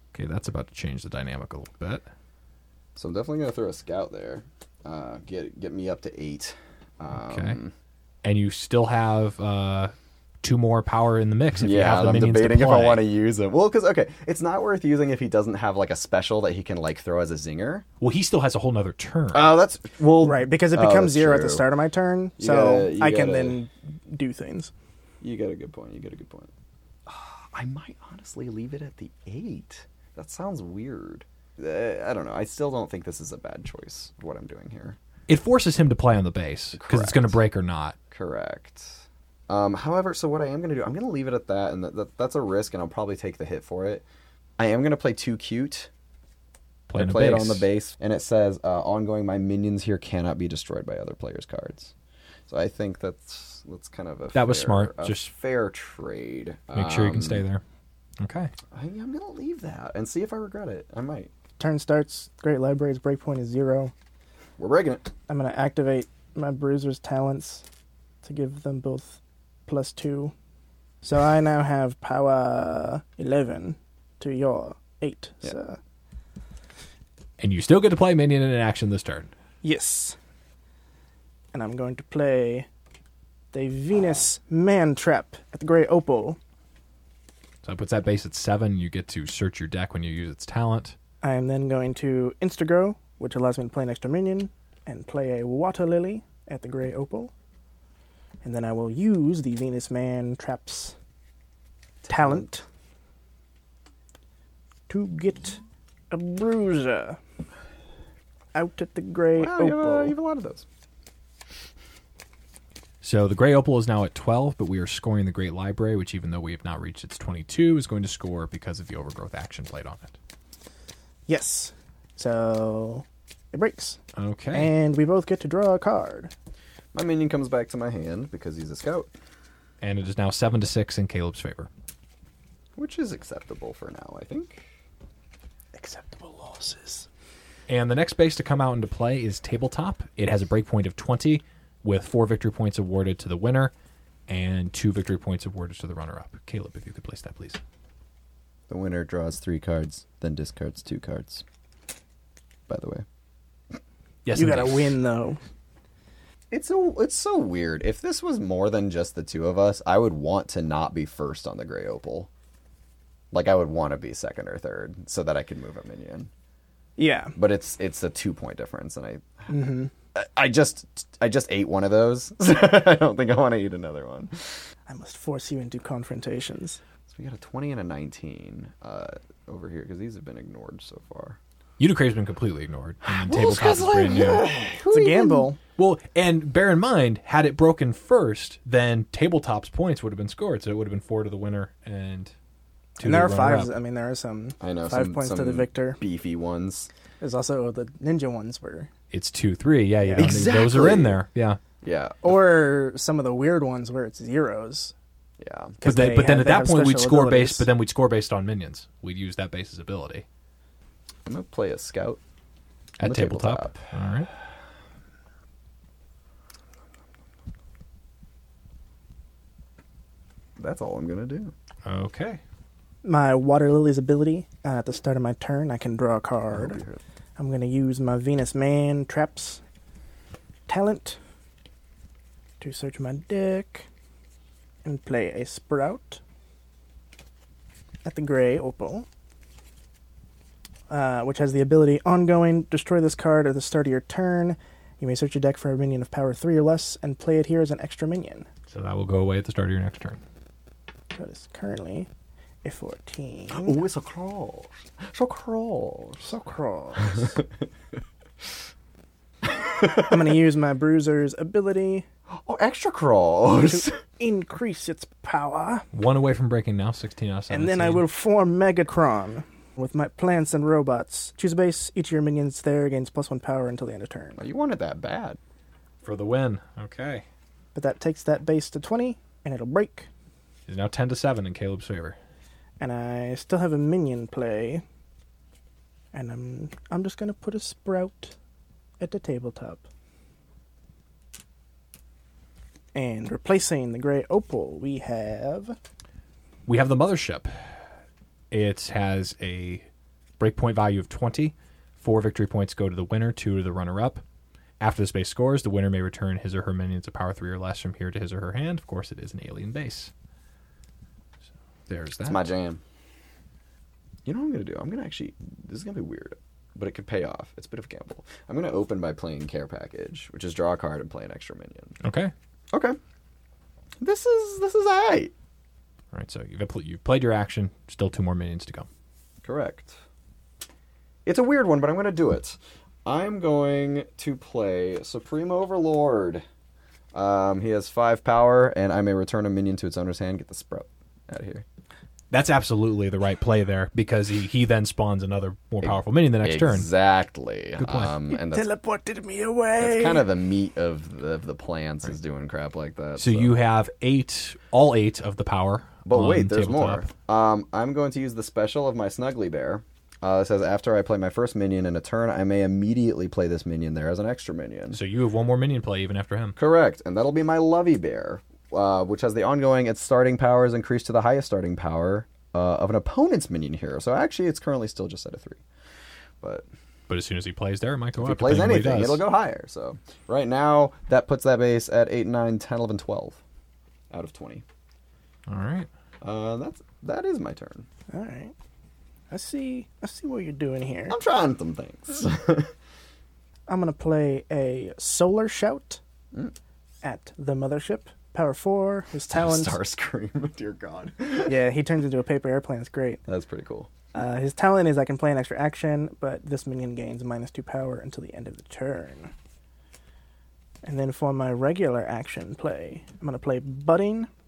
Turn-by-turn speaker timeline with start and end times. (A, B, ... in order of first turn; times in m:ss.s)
0:00.1-0:02.0 A
0:03.0-0:07.7 B
0:07.2-0:07.6 A
0:08.2-0:13.0 A
0:11.6-0:17.8 B
0:18.0-0:19.5 A
0:19.3-0:21.6 B
0:20.2-0:24.7 C
0:22.4-0:23.6 B
0:25.2-0:26.5 B
0:27.1-0:35.0 B
0:35.3-0:38.0 A
0:36.7-0:37.4 B
0:38.1-0:44.0 B
0:44.6-0:45.9 B
0:46.9-0:47.7 A
0:46.9-0:51.9 B
0:52.5-0:57.4 B
0:54.3-0:55.3 A
0:56.7-0:57.6 A
0:58.2-0:58.5 A
0:58.7-1:01.3 B
1:01.6-1:03.9 C
1:04.6-1:05.1 B
1:05.3-1:07.6 C
1:08.2-1:10.3 C
1:11.0-1:15.8 C
1:17.4-1:19.3 A
1:19.6-1:20.2 C
1:21.5-1:22.7 C
1:23.5-1:26.4 C
1:27.6-1:31.0 A
1:31.2-1:37.3 C
1:38.4-1:40.9 C
1:42.0-1:42.5 B
1:42.1-1:42.6 C
1:44.9-1:47.2 C
1:48.5-1:50.1 C
1:49.4-1:50.6 B
1:53.0-2:00.2 A
2:01.3-2:04.0 C
2:04.2-2:04.7 A
2:04.5-2:06.3 C
2:06.9-2:09.1 B
2:09.8-2:11.7 A
2:12.8-2:14.7 B
2:15.7-2:17.1 C
2:17.7-2:23.7 A
2:24.3-2:27.6 A
2:28.7-2:31.4 B
2:32.7-2:33.0 B
2:34.2-2:35.0 A
2:34.3-2:35.4 C
2:36.5-2:42.3 B
2:43.3-2:46.3 B
2:47.0-2:47.3 C
2:47.4-2:49.5 B
2:49.5-2:49.9 C
2:50.1-2:54.7 B
2:54.9-2:56.8 C
2:57.1-3:01.4 B
3:01.8-3:04.5 A
3:03.0-3:05.5 B
3:04.9-3:05.6 C
3:05.8-3:12.3 A
3:13.0-3:13.7 A
3:13.0-3:16.0 C
3:14.6-3:16.9 B
3:17.2-3:18.9 C
3:19.1-3:21.6 A
3:20.0-3:20.4 C
3:20.2-3:21.2 B
3:21.8-3:22.4 B
3:22.2-3:24.9 C
3:25.4-3:25.8 B
3:25.8-3:27.7 C
3:25.8-3:30.2 A
3:31.2-3:32.2 B
3:33.0-3:34.3 A
3:33.0-3:33.9 B
3:40.6-3:41.5 B
3:41.8-3:42.4 A
3:43.0-3:46.8 C
3:46.5-3:47.0 B
3:47.4-3:49.6 C
3:50.7-3:51.2 C
3:52.6-3:53.9 C
3:54.8-3:56.2 C
3:58.0-3:59.1 C
4:00.9-4:08.5 C
4:08.7-4:10.2 A
4:11.1-4:12.1 C
4:12.6-4:13.8 C
4:13.5-4:16.3 B
4:16.2-4:17.4 C
4:17.0-4:17.5 B
4:19.4-4:20.3 B
4:20.0-4:22.0 C
4:22.3-4:23.9 B
4:23.6-4:25.8 C
4:25.9-4:28.0 A
4:27.5-4:34.4 C
4:34.4-4:35.4 B
4:36.0-4:37.2 A
4:37.7-4:40.1 C
4:40.7-4:42.2 A
4:42.8-4:44.8 C
4:46.1-4:48.4 C
4:49.0-4:49.8 C
4:52.9-4:55.8 C
4:56.6-4:57.5 A
4:58.5-4:59.8 A
5:00.4-5:04.2 A
5:04.8-5:10.1 A
5:11.9-5:12.4 A
5:12.3-5:12.8 B
5:14.2-5:22.0 B
5:22.0-5:22.3 A
5:22.7-5:23.0 B
5:24.0-5:25.3 B
5:26.1-5:28.9 A
5:29.4-5:30.0 B
5:31.2-5:36.4 B
5:37.1-5:41.6 B
5:42.3-5:46.9 A
5:45.8-5:48.7 B
5:47.8-5:48.1 A
5:48.4-5:50.2 C
5:49.8-5:53.6 B
5:53.2-5:57.1 A
5:56.0-6:05.0 B
6:04.9-6:06.6 A
6:06.6-6:15.6 B
6:16.4-6:16.6 B
6:17.1-6:19.2 A
6:18.2-6:23.4 B
6:24.1-6:24.6 B
6:25.5-6:25.9 A
6:26.2-6:27.8 B
6:28.1-6:28.5 C
6:29.3-6:31.2 C
6:31.1-6:32.7 B
6:33.7-6:36.0 C
6:37.0-6:39.8 C
6:39.3-6:41.6 B
6:41.4-6:43.2 C
6:43.3-6:43.9 B
6:44.1-6:49.3 C
6:50.8-6:54.3 C